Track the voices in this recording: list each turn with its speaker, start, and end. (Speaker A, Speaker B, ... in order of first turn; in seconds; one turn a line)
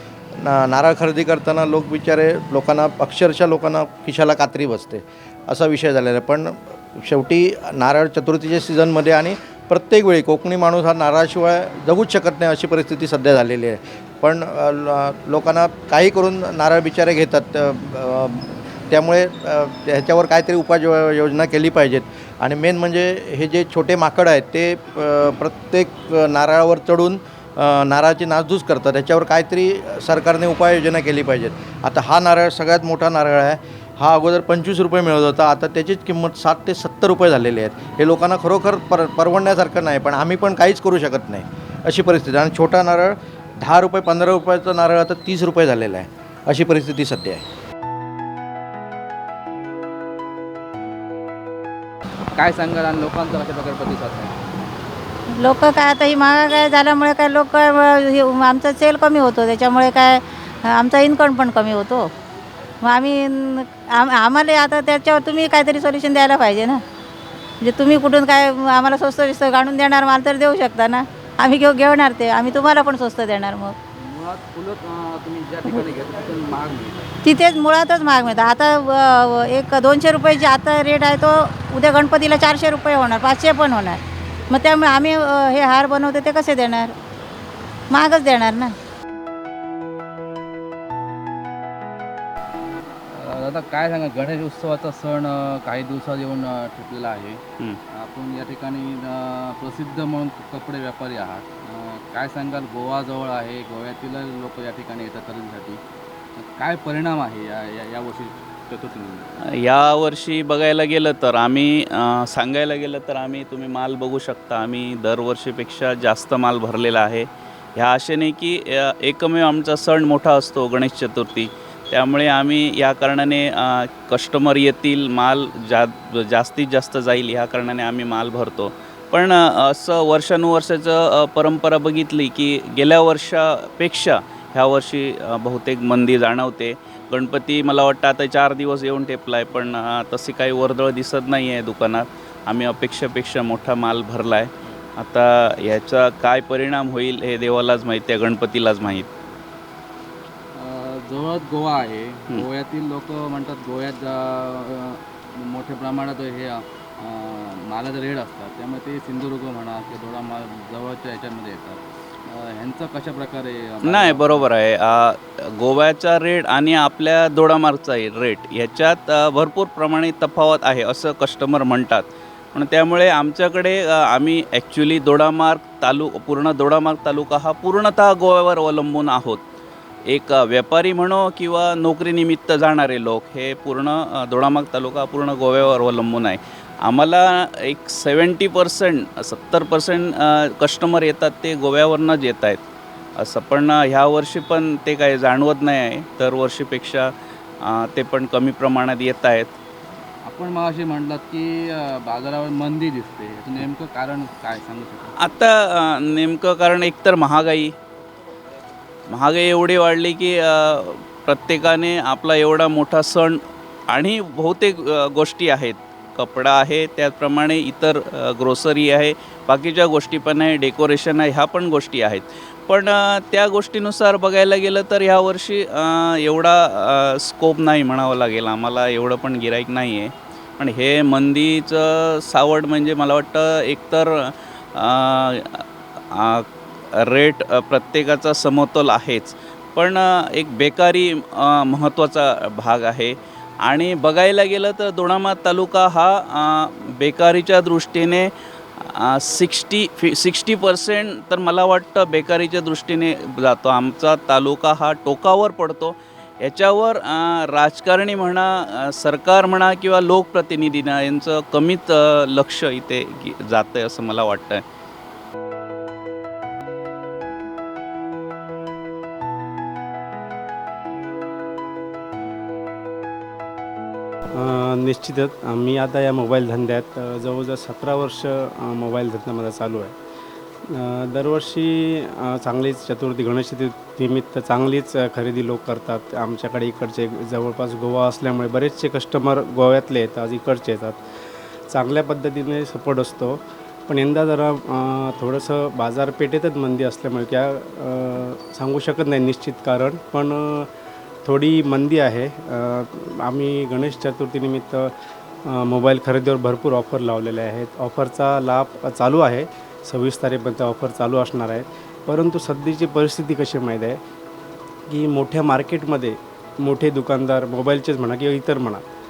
Speaker A: 0.4-47.4
Speaker B: 52.4-54.4
Speaker C: 55.4-62.1
Speaker C: 62.8-66.8
Speaker C: 67.6-73.7
Speaker B: 74.0-77.1
Speaker C: 77.2-86.9
Speaker C: 87.9-88.7
Speaker B: 93.1-97.4
Speaker B: 97.9-105.8
Speaker B: 106.4-109.3
Speaker D: 109.6-149.1
Speaker B: 150.5-164.5
Speaker D: 163.8-179.4
Speaker D: 180.1-192.6
Speaker D: 193.2-197.1
Speaker D: 197.7-199.6
Speaker B: 200.2-205.2
Speaker D: 205.2-207.7
Speaker D: 209.1-213.4
Speaker D: 213.9-236.5
Speaker D: 237.0-243.1
Speaker D: 243.7-248.3
Speaker D: 248.8-264.6
Speaker E: 274.4-279.9
Speaker E: 280.7-291.0
Speaker E: 291.7-300.7
Speaker E: 301.2-304.9
Speaker E: 305.5-314.0
Speaker E: 314.9-318.8